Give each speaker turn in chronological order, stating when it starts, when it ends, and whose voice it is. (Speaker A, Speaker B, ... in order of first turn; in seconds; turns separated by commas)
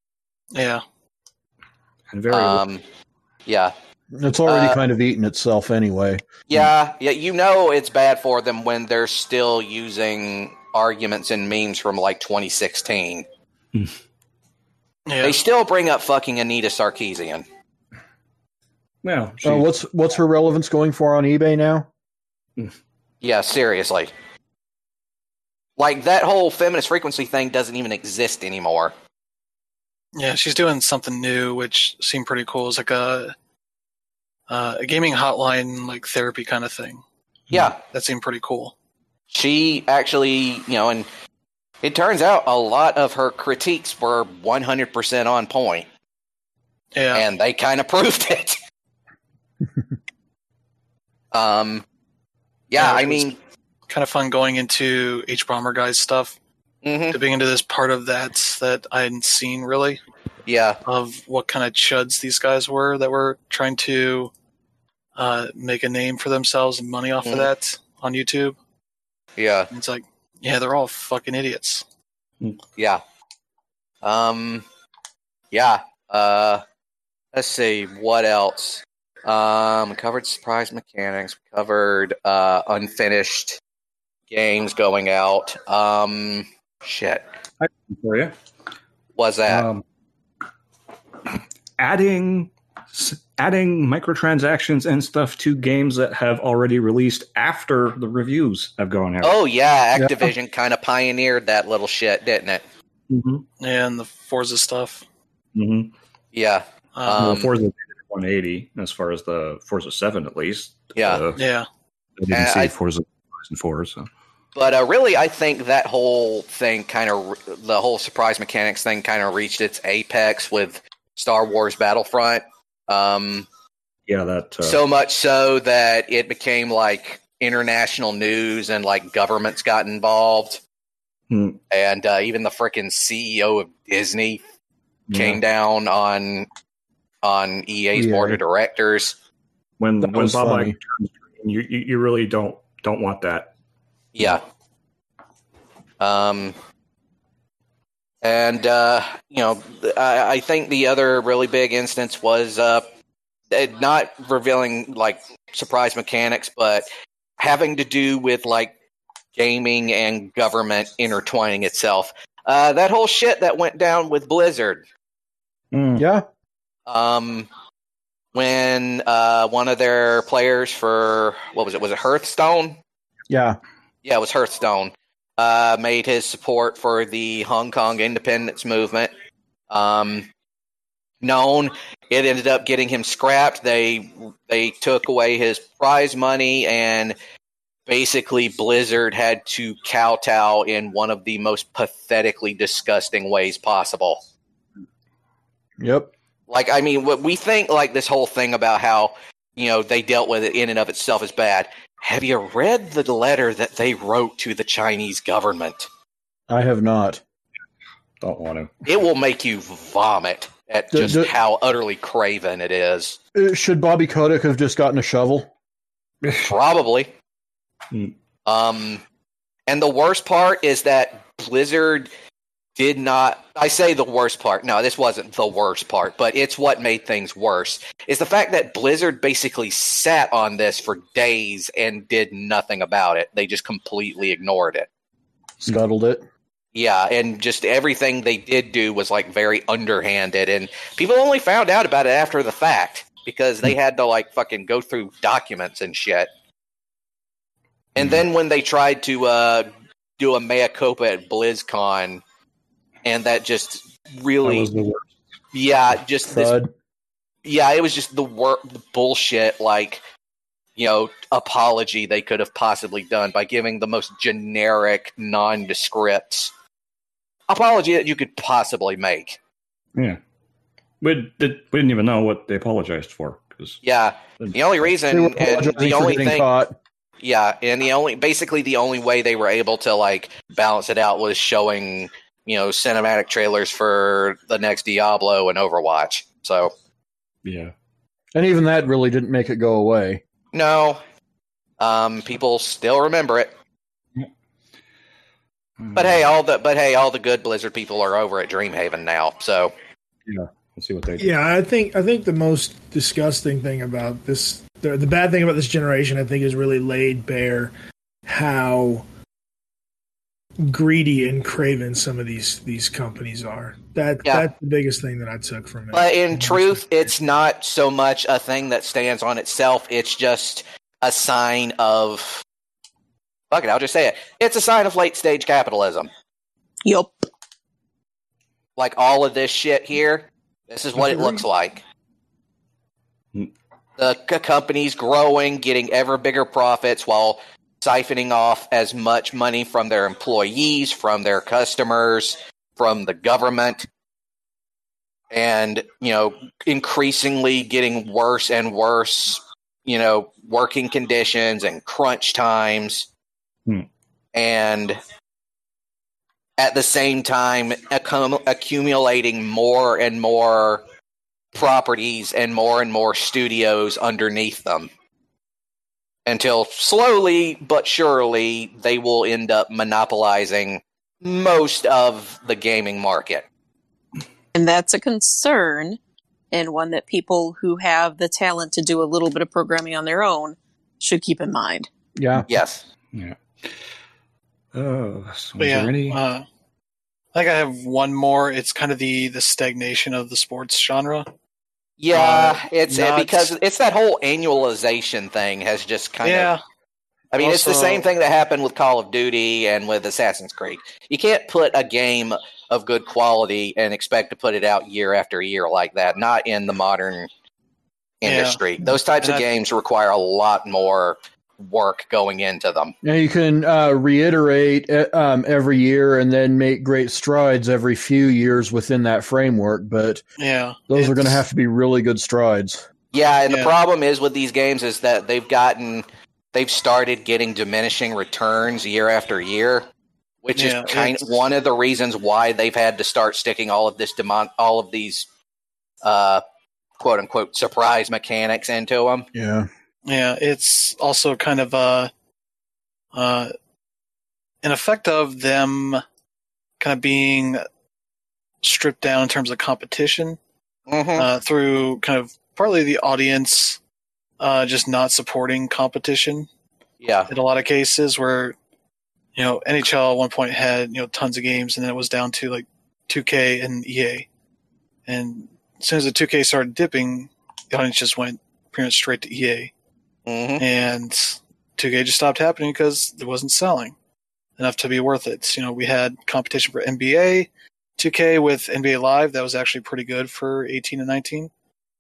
Speaker A: 0.5-0.8, Speaker B: 2.1-2.6, Speaker C: 2.3-2.8, Speaker C: 3.5-3.7, Speaker D: 4.2-6.2, Speaker C: 4.5-4.8, Speaker C: 6.5-13.3, Speaker A: 15.1-15.4, Speaker C: 15.2-17.4, Speaker B: 19.0-19.6, Speaker D: 19.4-21.9, Speaker C: 23.2-24.1, Speaker C: 25.8-28.9, Speaker A: 30.2-33.3, Speaker A: 34.5-37.0, Speaker C: 37.5-37.8, Speaker A: 37.8-38.7, Speaker C: 39.3-41.1, Speaker C: 41.8-45.9, Speaker A: 47.0-47.2, Speaker C: 47.1-48.6, Speaker C: 51.3-51.9, Speaker C: 52.7-53.4, Speaker A: 52.8-53.3, Speaker A: 53.9-56.4, Speaker C: 56.8-57.2, Speaker A: 57.1-60.0, Speaker C: 60.5-60.8, Speaker A: 60.9-64.3, Speaker A: 65.2-68.6, Speaker C: 67.2-67.5, Speaker C: 69.4-69.7, Speaker A: 69.7-71.8, Speaker C: 72.8-73.0, Speaker C: 74.0-74.6, Speaker C: 75.5-76.6, Speaker C: 77.3-83.6, Speaker C: 84.3-87.2, Speaker B: 87.6-88.3, Speaker C: 89.2-89.7, Speaker B: 89.5-89.8, Speaker B: 91.8-99.4, Speaker C: 99.2-102.6, Speaker D: 100.0-100.3, Speaker B: 103.1-103.5, Speaker A: 103.6-105.0, Speaker B: 105.5-105.9, Speaker C: 106.3-107.5, Speaker A: 107.0-107.4, Speaker B: 107.2-111.4, Speaker C: 111.0-111.2, Speaker A: 111.4-111.7, Speaker B: 112.2-114.1, Speaker C: 112.3-112.7, Speaker C: 114.5-123.5, Speaker B: 124.1-124.8, Speaker C: 124.6-130.6, Speaker B: 131.3-131.6, Speaker C: 131.7-134.4, Speaker B: 135.1-135.4, Speaker C: 135.1-136.5, Speaker C: 137.2-139.1, Speaker D: 137.9-138.4, Speaker B: 139.8-143.5, Speaker D: 140.0-140.8, Speaker C: 144.1-144.4, Speaker C: 146.0-146.6, Speaker C: 148.2-152.8, Speaker C: 153.5-156.9, Speaker C: 157.4-158.7, Speaker C: 159.4-164.8, Speaker B: 165.7-166.0, Speaker D: 165.9-166.3, Speaker C: 166.9-167.5, Speaker C: 168.3-172.8, Speaker D: 173.3-173.6, Speaker C: 174.0-179.1, Speaker C: 179.7-180.3, Speaker C: 181.2-187.1, Speaker C: 187.9-194.2, Speaker D: 195.8-196.1, Speaker C: 196.5-205.9, Speaker D: 206.5-207.2, Speaker B: 208.2-208.7, Speaker C: 208.8-213.2, Speaker D: 210.9-211.3, Speaker D: 213.3-215.5, Speaker C: 216.3-217.1, Speaker C: 218.5-219.0, Speaker C: 219.7-222.1, Speaker C: 222.8-234.9, Speaker D: 235.6-236.2, Speaker C: 236.8-246.3, Speaker C: 248.0-252.2, Speaker C: 253.0-254.7, Speaker B: 254.4-255.1, Speaker C: 255.5-256.5, Speaker D: 256.3-256.7, Speaker C: 257.4-260.0, Speaker C: 260.8-266.5, Speaker C: 267.5-269.4, Speaker B: 271.0-273.8, Speaker C: 273.8-276.5, Speaker B: 274.4-274.9, Speaker D: 275.1-276.8, Speaker C: 277.2-286.7, Speaker B: 287.4-287.7, Speaker D: 288.4-290.2, Speaker C: 290.5-291.0, Speaker C: 291.8-293.5, Speaker B: 295.8-296.3, Speaker C: 295.9-299.7, Speaker B: 300.3-301.3, Speaker E: 301.2-307.7, Speaker E: 308.3-309.1, Speaker E: 310.6-316.8, Speaker C: 315.9-322.4, Speaker C: 323.5-326.1, Speaker F: 326.9-327.3, Speaker C: 328.8-331.8, Speaker C: 334.0-343.9, Speaker C: 345.3-353.1, Speaker C: 354.3-355.0, Speaker C: 356.6-360.8, Speaker C: 361.5-364.9, Speaker C: 366.3-373.5, Speaker F: 374.6-376.0, Speaker F: 376.5-381.9, Speaker D: 382.2-382.5, Speaker C: 382.5-382.8, Speaker B: 383.1-383.8, Speaker B: 384.7-386.2, Speaker A: 385.6-386.5, Speaker A: 387.3-391.3, Speaker C: 392.0-396.5, Speaker A: 392.1-393.5, Speaker A: 396.2-396.6, Speaker C: 397.3-407.3, Speaker A: 397.4-398.1, Speaker C: 408.2-412.9, Speaker A: 408.2-408.6, Speaker A: 409.2-409.5, Speaker D: 413.0-420.2, Speaker A: 420.4-421.4, Speaker D: 420.9-422.9, Speaker C: 423.1-429.9, Speaker A: 423.5-423.7, Speaker C: 430.4-435.3, Speaker A: 430.6-431.3, Speaker C: 436.0-436.4, Speaker C: 437.0-439.3, Speaker D: 439.3-439.7, Speaker A: 440.1-442.1, Speaker A: 443.1-443.5, Speaker A: 444.6-446.0, Speaker A: 446.8-447.6, Speaker A: 448.6-450.4, Speaker C: 450.9-451.3, Speaker A: 451.2-453.8, Speaker A: 454.4-456.5, Speaker C: 457.0-457.3, Speaker A: 457.3-458.6, Speaker A: 459.4-464.3, Speaker A: 465.1-469.7, Speaker C: 470.3-470.6, Speaker A: 470.6-473.9, Speaker A: 474.6-481.5